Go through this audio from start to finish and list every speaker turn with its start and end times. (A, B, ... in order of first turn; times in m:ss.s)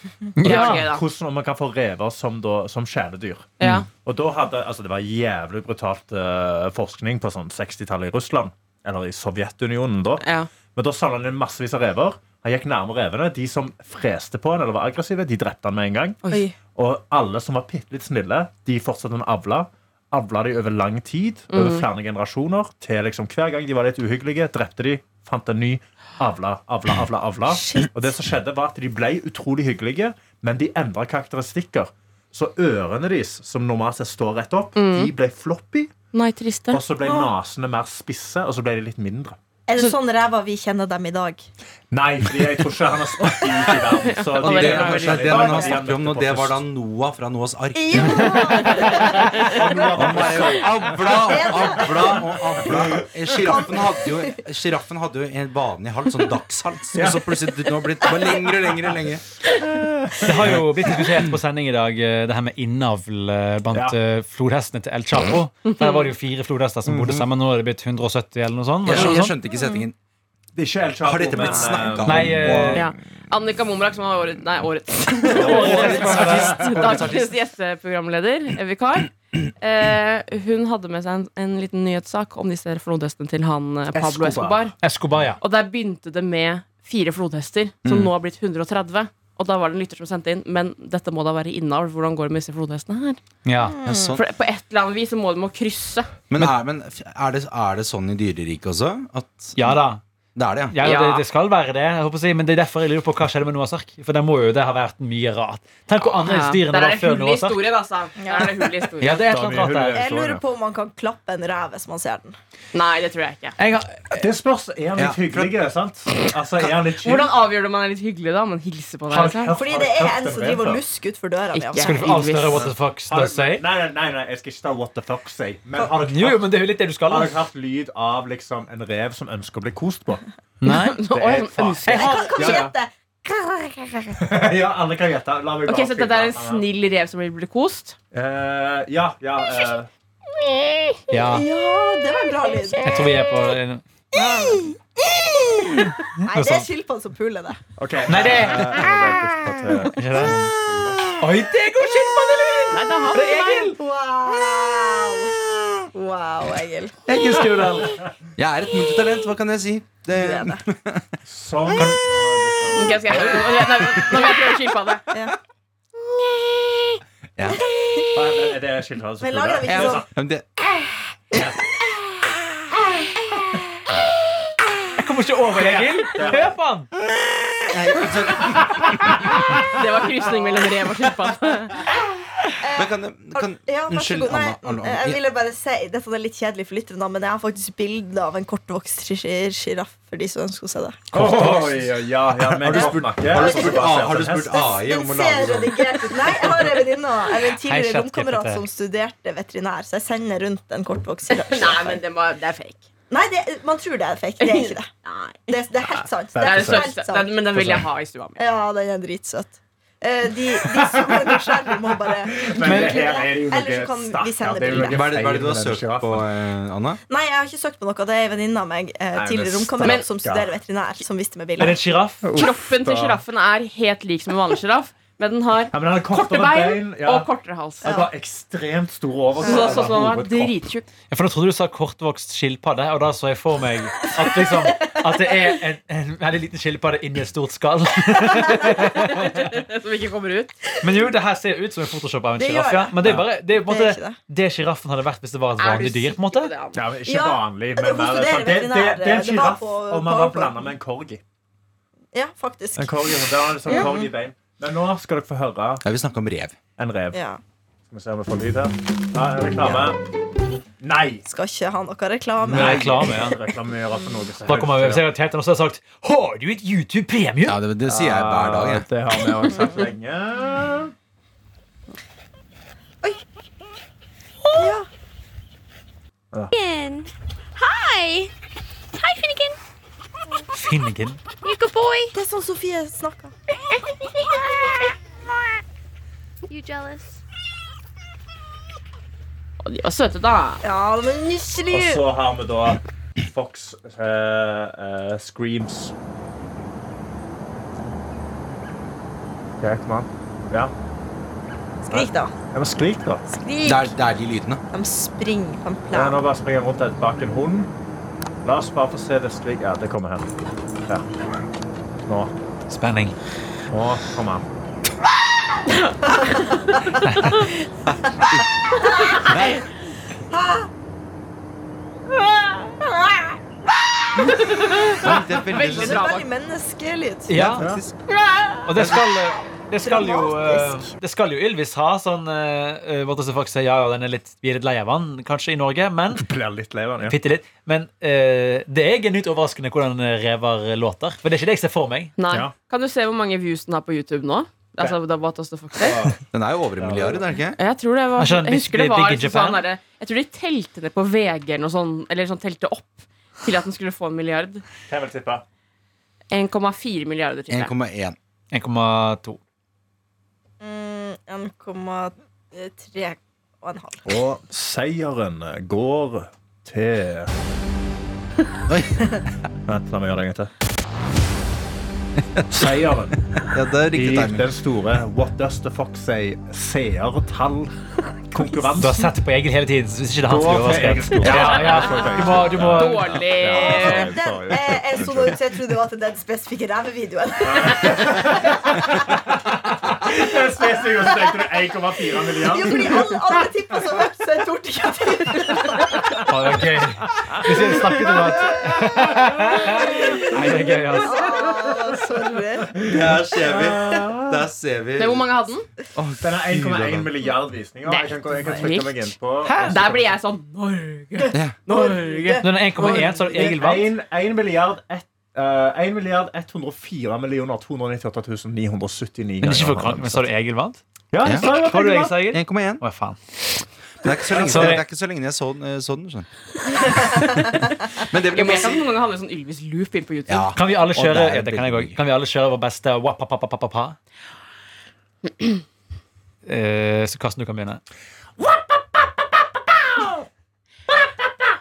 0:00.4-0:00.9 A
0:00.4-0:01.0 B
0:00.4-0:10.2 C
0:03.6-0:03.9 B
0:03.6-0:03.9 A
0:10.2-0:10.5 B
0:10.8-0:16.2 C
0:16.2-0:16.5 B
0:16.7-0:35.9 C
0:21.5-0:21.8 B
0:34.8-0:35.1 B
0:36.1-0:36.8 B
0:36.7-0:39.4 C
0:37.0-0:37.3 D
0:39.7-0:41.4 D
0:41.9-0:46.6 C
0:44.0-0:45.5 B
0:44.4-0:48.7 E
0:45.3-0:45.7 D
0:47.8-0:54.4 D
0:48.8-0:52.8 C
0:50.0-0:59.2 E
0:56.9-0:57.4 C
0:59.5-1:00.6 C
1:00.2-1:09.4 A
1:05.7-1:06.1 B
1:06.9-1:07.3 E
1:08.8-1:10.0 E
1:09.5-1:09.8 D
1:10.6-1:12.4 C
1:11.0-1:12.9 E
1:12.0-1:12.9 A
1:12.7-1:24.8 B
1:15.3-1:17.3 A
1:15.4-1:16.4 C
1:15.6-1:16.6 E
1:23.9-1:24.6 C
1:24.8-1:25.4 A
1:25.4-1:33.2 B
1:27.8-1:28.1 E
1:33.4-1:33.8 A
1:33.6-1:34.2 D
1:33.8-1:34.2 E
1:34.1-1:36.1 B
1:36.3-1:39.6 E
1:39.6-1:40.0 A
1:40.4-1:40.8 E
1:40.7-1:47.6 A
1:40.8-1:41.2 B
1:46.0-1:49.3 B
1:48.2-1:48.5 D
1:49.0-1:50.0 A
1:49.3-1:50.4 C
1:49.9-1:52.4 D
1:52.7-1:53.6 B
1:53.6-1:54.2 A
1:54.1-1:57.3 C
1:55.0-1:55.5 E
1:57.0-1:59.5 B
1:59.1-2:00.8 C
1:59.6-2:02.1 D
2:01.5-2:02.7 B
2:01.8-2:03.6 A
2:02.6-2:06.5 C
2:06.0-2:07.4 A
2:07.1-2:10.2 C
2:10.6-2:11.0 A
2:10.7-2:12.6 B
2:11.1-2:12.7 C
2:11.9-2:12.6 A
2:11.9-2:14.2 D
2:14.2-2:16.6 C
2:15.7-2:18.0 B
2:18.1-2:19.9 C
2:21.1-2:21.5 A
2:21.2-2:23.2 D
2:22.8-2:23.8 A
2:24.1-2:27.6 D
2:25.9-2:26.6 A
2:27.8-2:31.0 C
2:28.1-2:29.1 A
2:29.9-2:30.4 A
2:31.2-2:33.8 A
2:32.7-2:33.6 B
2:33.7-2:37.0 D
2:37.1-2:38.0 A
2:37.1-2:37.7 E
2:38.4-2:41.2 E
2:40.1-2:40.6 D
2:41.3-2:44.0 C
2:42.7-2:45.1 B
2:43.2-2:43.4 A
2:46.4-2:47.0 D
2:47.4-2:47.6 E
2:47.9-2:48.2 D
2:48.1-2:50.1 C
2:49.2-2:50.1 D
2:49.7-2:50.5 E
2:55.0-2:56.9 A
2:55.5-2:56.5 C
2:57.7-2:59.2 E
2:59.7-3:01.8 B
3:02.6-3:11.1 D
3:02.8-3:05.2 E
3:11.1-3:14.6 C
3:11.1-3:11.8 E
3:11.4-3:11.6 A
3:12.5-3:16.6 E
3:12.8-3:13.8 D
3:14.5-3:22.0 D
3:17.5-3:18.6 A
3:21.3-3:22.8 B
3:23.1-3:24.9 D
3:24.4-3:25.5 B
3:25.5-3:27.4 D
3:26.3-3:26.9 C
3:26.4-3:28.4 B
3:27.6-3:27.9 C
3:28.4-3:35.0 D
3:30.8-3:31.2 C
3:32.3-3:36.3 C
3:32.6-3:33.2 A
3:34.7-3:37.0 E
3:37.1-3:41.9 D
3:39.2-3:40.5 C
3:39.8-3:40.1 B
3:41.6-3:42.4 A
3:42.2-3:43.2 C
3:42.3-3:48.0 B
3:45.7-3:47.3 C
3:47.8-3:50.5 C
3:47.8-3:48.1 D
3:49.4-3:50.9 B
3:49.4-3:49.9 D
3:51.1-3:59.6 A
3:58.8-4:00.5 B
4:00.8-4:06.5 A
4:02.4-4:04.2 D
4:05.6-4:06.8 B
4:06.7-4:11.2 C
4:07.1-4:10.7 D
4:12.1-4:13.1 D
4:12.8-4:15.8 C
4:13.6-4:14.1 D
4:15.8-4:16.6 E
4:16.8-4:17.2 C
4:17.1-4:17.4 D
4:17.9-4:20.0 C
4:19.6-4:19.9 E
4:20.8-4:21.2 C
4:21.2-4:23.2 D
4:22.5-4:25.0 C
4:22.5-4:23.4 A
4:24.5-4:27.6 A
4:27.4-4:28.9 E
4:27.8-4:30.9 C
4:34.5-4:34.9 D
4:36.5-4:38.3 F
4:39.0-4:39.6 F
4:40.6-4:41.2 A
4:41.4-4:42.1 F
4:42.1-4:43.3 D
4:44.0-4:44.9 F
4:46.5-4:47.2 F
4:49.6-4:50.6 B
4:50.6-4:52.0 D
4:51.7-4:55.9 C
4:59.6-5:00.7 C
5:01.8-5:02.3 D
5:01.9-5:03.2 C
5:03.3-5:04.0 D
5:03.6-5:04.6 E
5:04.7-5:06.2 D
5:05.9-5:07.7 C
5:08.4-5:10.3 C
5:12.1-5:12.3 C
5:12.7-5:13.2 A
5:13.7-5:14.4 C
5:16.0-5:17.0 D
5:17.0-5:17.4 A
5:17.2-5:17.5 B
5:17.9-5:18.5 E
5:18.2-5:19.6 D
5:19.2-5:19.6 E
5:20.3-5:20.7 D
5:22.8-5:23.4 D
5:24.3-5:26.3 B
5:25.0-5:26.1 E
5:25.6-5:27.5 D
5:27.3-5:27.7 A
5:27.3-5:28.0 E
5:28.6-5:36.2 A
5:28.8-5:29.1 E
5:29.8-5:30.9 D
5:36.2-5:37.2 C
5:37.0-5:42.1 A
5:42.2-5:46.1 B
5:45.8-5:46.2 C
5:46.3-5:47.6 E
5:46.8-5:47.2 C
5:47.6-5:54.6 B
5:48.2-5:49.6 A
5:54.9-5:55.4 C
5:56.3-5:57.7 B
5:57.5-5:58.2 E
5:58.5-5:59.4 A
6:00.6-6:04.1 D
6:04.0-6:07.3 C
6:08.7-6:09.2 E
6:09.7-6:10.5 C
6:12.3-6:12.7 E
6:12.5-6:13.2 C
6:13.4-6:14.5 E
6:13.9-6:19.1 C
6:18.8-6:23.2 A
6:20.2-6:25.4 C
6:21.3-6:24.1 B
6:23.5-6:28.5 D
6:27.4-6:33.2 C
6:32.4-6:36.2 D
6:36.2-6:41.6 A
6:39.9-6:42.8 D
6:42.8-6:44.4 C
6:42.8-6:45.3 E
6:45.0-6:45.7 B
6:46.0-6:47.1 E
6:46.2-6:50.0 C
6:47.9-6:49.1 B
6:49.4-6:50.0 A
6:49.7-6:53.2 B
6:51.3-6:53.0 D
6:52.4-6:53.9 A
6:52.9-7:00.3 C
6:59.4-7:03.6 A
7:01.1-7:02.2 C
7:01.2-7:01.6 E
7:02.3-7:02.8 E
7:04.0-7:07.5 E
7:04.1-7:04.8 C
7:04.3-7:04.8 A
7:08.0-7:08.9 E
7:08.3-7:10.6 B
7:10.3-7:12.0 E
7:10.6-7:14.0 A
7:16.4-7:17.8 A
7:18.4-7:20.2 B